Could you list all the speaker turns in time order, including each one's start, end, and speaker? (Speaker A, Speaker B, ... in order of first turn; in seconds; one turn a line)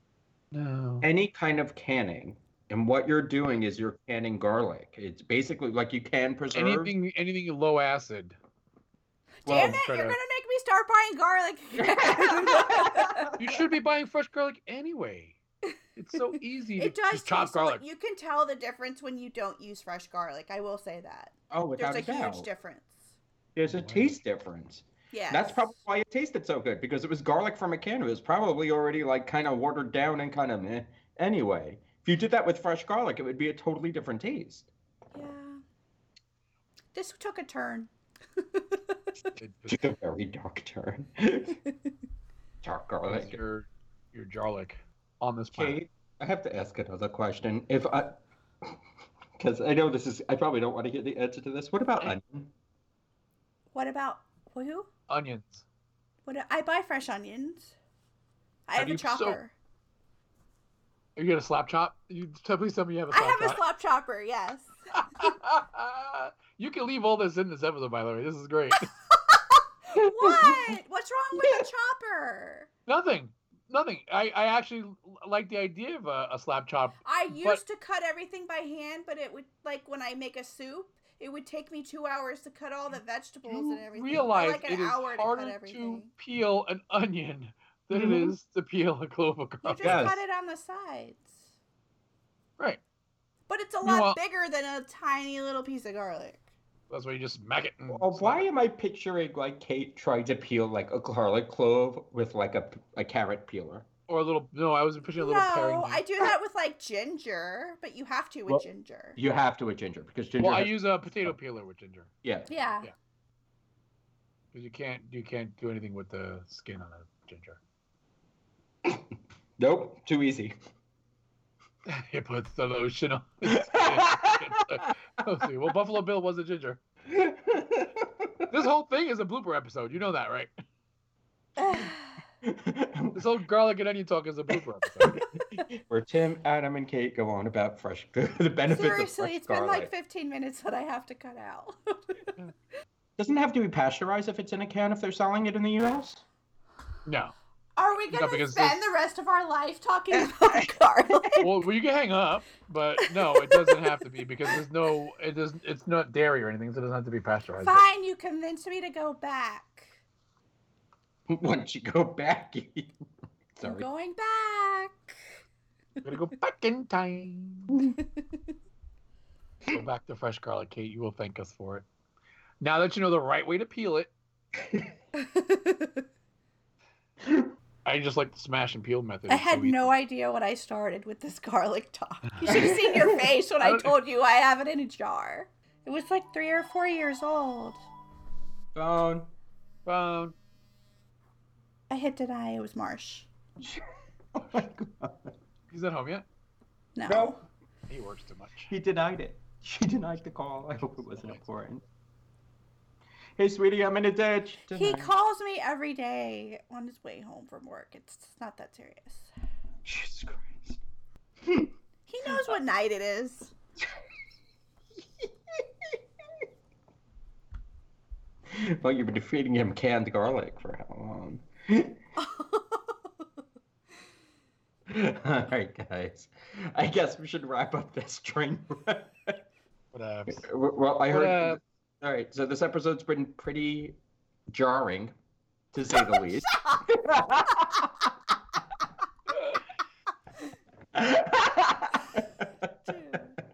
Speaker A: 0.5-1.1
Speaker B: 1.0-6.9
Speaker A: 6.5-8.4
Speaker C: 9.4-13.3
Speaker B: 9.4-9.8
Speaker A: 9.7-10.2
Speaker B: 11.8-13.6
Speaker A: 13.4-15.4
Speaker A: 15.9-17.8
Speaker C: 16.3-23.1
Speaker B: 21.5-22.5
Speaker B: 23.5-34.7
Speaker A: 23.6-24.1
Speaker C: 25.1-25.8
Speaker C: 35.1-35.6
Speaker C: 36.9-39.0
Speaker A: 39.4-39.8
Speaker B: 39.7-41.6
Speaker B: 42.6-43.3
Speaker A: 43.0-45.8
Speaker B: 45.5-48.8
Speaker B: 49.4-52.5
Speaker C: 53.7-54.9
Speaker A: 55.1-55.6
Speaker C: 56.2-57.7
Speaker C: 58.7-59.5
Speaker A: 58.8-59.4
Speaker A: 61.1-63.6
Speaker C: 63.1-64.7
Speaker A: 64.9-68.9
Speaker C: 69.1-72.7
Speaker B: 70.0-70.8
Speaker B: 71.3-71.7
Speaker A: 72.9-77.6
Speaker C: 77.0-86.1
Speaker A: 83.5-90.0
Speaker B: 87.9-88.3
Speaker C: 89.6-91.4
Speaker B: 89.8-90.2
Speaker C: 93.5-96.4
Speaker A: 93.8-94.2
Speaker A: 96.9-98.5
Speaker B: 97.9-103.8
Speaker A: 104.1-106.0
Speaker C: 105.2-109.2
Speaker B: 109.2-111.3
Speaker A: 110.4-112.1
Speaker B: 112.2-112.5
Speaker C: 112.5-112.9
Speaker A: 114.5-117.6
Speaker B: 119.6-120.5
Speaker A: 121.8-126.8
Speaker B: 123.5-124.9
Speaker B: 127.0-128.5
Speaker A: 128.5-130.5
Speaker C: 131.6-132.2
Speaker B: 132.4-133.2
Speaker A: 133.1-135.2
Speaker B: 135.0-139.9
Speaker C: 138.7-142.3
Speaker B: 143.2-146.2
Speaker A: 147.0-147.3
Speaker C: 147.8-151.4
Speaker A: 148.1-148.9
Speaker B: 150.2-151.5
Speaker A: 151.4-157.8
Speaker C: 153.0-153.8
Speaker C: 157.6-159.9
Speaker B: 161.3-162.9
Speaker B: 163.5-163.9
Speaker C: 163.6-165.2
Speaker A: 166.0-167.8
Speaker C: 167.8-168.2
Speaker A: 169.7-171.8
Speaker A: 172.6-174.1
Speaker C: 175.2-176.0
Speaker B: 177.2-177.5
Speaker A: 177.8-179.9
Speaker C: 179.3-187.8
Speaker B: 182.5-183.1
Speaker A: 183.6-183.9
Speaker B: 188.7-189.3
Speaker A: 189.8-190.3
Speaker C: 191.9-193.3
Speaker B: 193.6-195.3
Speaker A: 195.7-196.2
Speaker C: 196.9-197.4
Speaker B: 197.1-197.3
Speaker A: 197.9-198.7
Speaker B: 198.7-201.8
Speaker B: 203.4-205.1
Speaker C: 204.7-209.3
Speaker B: 209.8-210.8
Speaker B: 211.4-211.7
Speaker C: 212.1-213.5
Speaker B: 215.2-216.0
Speaker B: 218.5-222.0
Speaker C: 222.2-222.9
Speaker B: 224.9-229.4
Speaker A: 229.9-230.4
Speaker B: 230.3-234.0
Speaker A: 231.1-231.6
Speaker B: 234.5-235.1
Speaker B: 235.7-238.1
Speaker B: 240.9-242.5
Speaker C: 242.8-243.4